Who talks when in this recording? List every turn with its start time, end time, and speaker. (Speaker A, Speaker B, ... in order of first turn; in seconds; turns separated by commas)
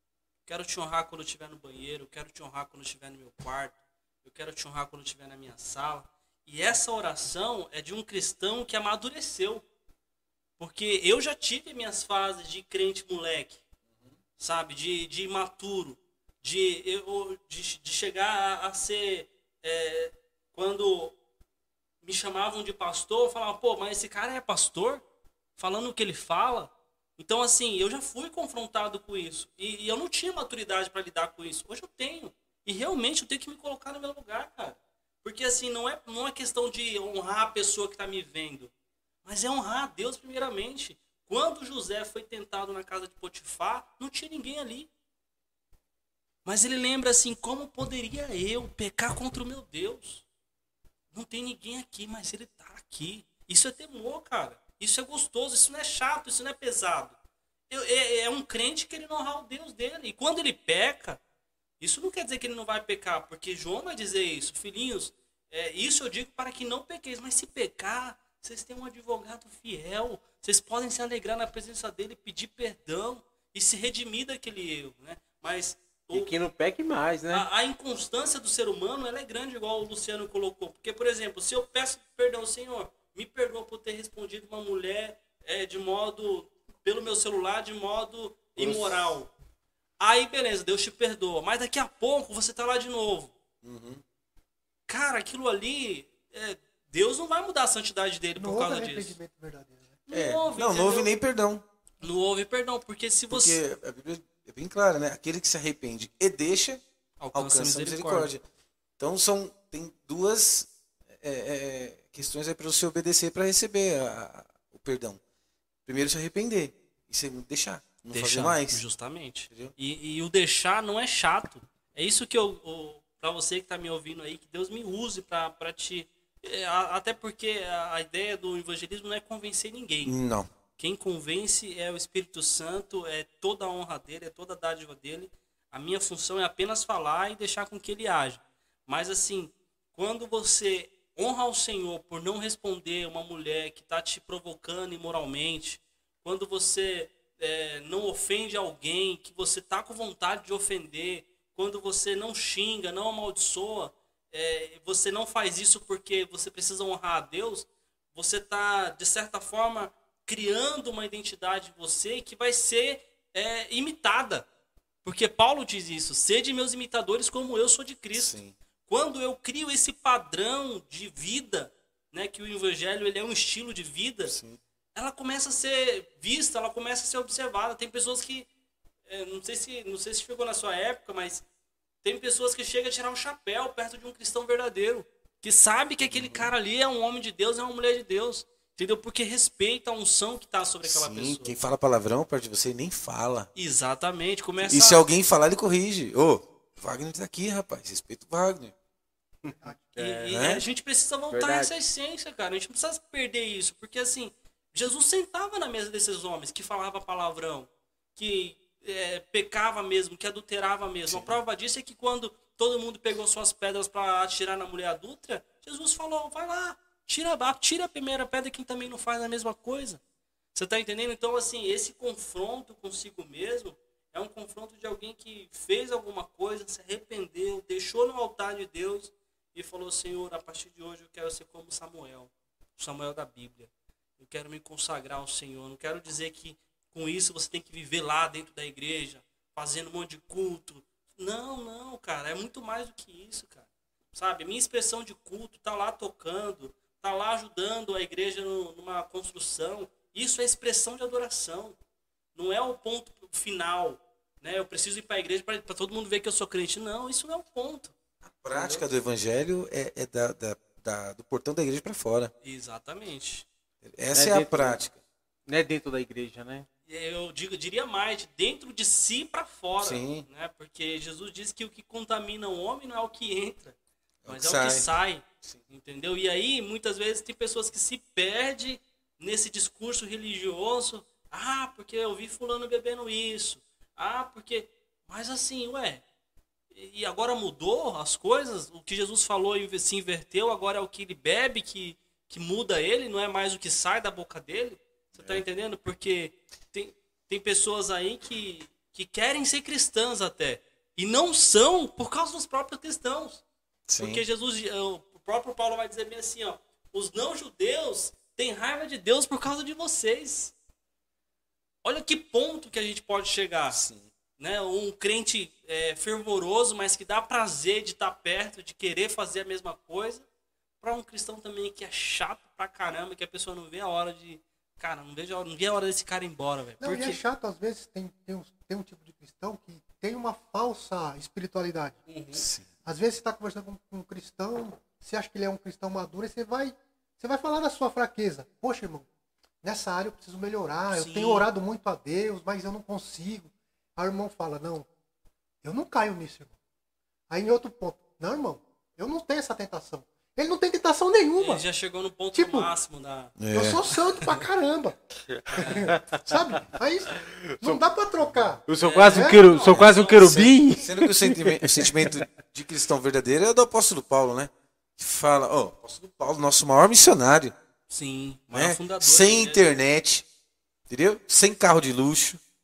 Speaker A: 0.5-9.6, Speaker A: 10.6-13.6, Speaker A: 14.4-21.1, Speaker A: 22.0-25.0, Speaker A: 25.6-38.7, Speaker A: 39.2-44.9, Speaker A: 46.4-50.2, Speaker A: 51.1-57.1, Speaker A: 57.7-61.2, Speaker A: 61.8-76.3, Speaker B: 76.1-77.5, Speaker A: 77.3-89.3, Speaker C: 88.6-89.1, Speaker A: 90.0-93.3, Speaker C: 93.6-94.0, Speaker A: 94.9-99.2, Speaker D: 98.4-100.0, Speaker A: 100.1-101.1, Speaker C: 100.1-101.6, Speaker A: 102.0-103.6, Speaker C: 103.3-106.8, Speaker A: 107.2-108.3, Speaker C: 107.3-108.4, Speaker C: 109.0-115.2, Speaker C: 115.9-118.8, Speaker A: 118.1-130.1, Speaker C: 130.0-130.5, Speaker A: 130.8-164.4, Speaker A: 165.0-174.3, Speaker C: 168.1-168.6, Speaker C: 174.3-174.6, Speaker A: 174.9-178.5, Speaker A: 179.1-181.4, Speaker A: 182.0-191.6, Speaker C: 186.1-186.5, Speaker C: 190.8-193.5, Speaker A: 193.5-195.1, Speaker C: 194.6-198.7, Speaker B: 199.4-200.4, Speaker D: 199.5-199.8, Speaker A: 199.9-220.0, Speaker C: 200.3-200.7, Speaker B: 201.3-201.8, Speaker C: 211.1-211.4, Speaker A: 220.5-251.8, Speaker A: 252.3-257.9, Speaker C: 258.2-262.3, Speaker A: 258.5-258.8, Speaker A: 262.4-263.5, Speaker C: 263.8-265.0, Speaker B: 264.1-264.8, Speaker B: 265.5-266.7, Speaker A: 266.9-273.8, Speaker C: 269.8-270.3, Speaker C: 274.2-274.9, Speaker A: 274.3-286.0, Speaker A: 286.7-303.4, Speaker C: 303.9-304.2, Speaker A: 304.0-310.5, Speaker A: 311.8-313.8, Speaker C: 313.7-314.1, Speaker A: 314.4-320.2, Speaker A: 320.8-327.2, Speaker D: 326.8-332.0, Speaker A: 332.1-332.4, Speaker C: 332.3-332.7, Speaker D: 332.8-339.1, Speaker D: 339.6-344.9, Speaker A: 340.9-341.5, Speaker D: 345.6-346.5, Speaker D: 347.3-351.6, Speaker A: 351.4-353.3, Speaker D: 352.3-352.7, Speaker C: 353.4-353.9, Speaker D: 353.5-355.0, Speaker B: 355.3-356.2, Speaker D: 355.5-359.4, Speaker A: 355.6-355.9, Speaker B: 357.2-357.8, Speaker B: 358.6-362.1, Speaker A: 358.8-360.5, Speaker C: 360.2-367.5, Speaker A: 367.9-369.6, Speaker C: 368.5-370.2, Speaker C: 370.9-372.4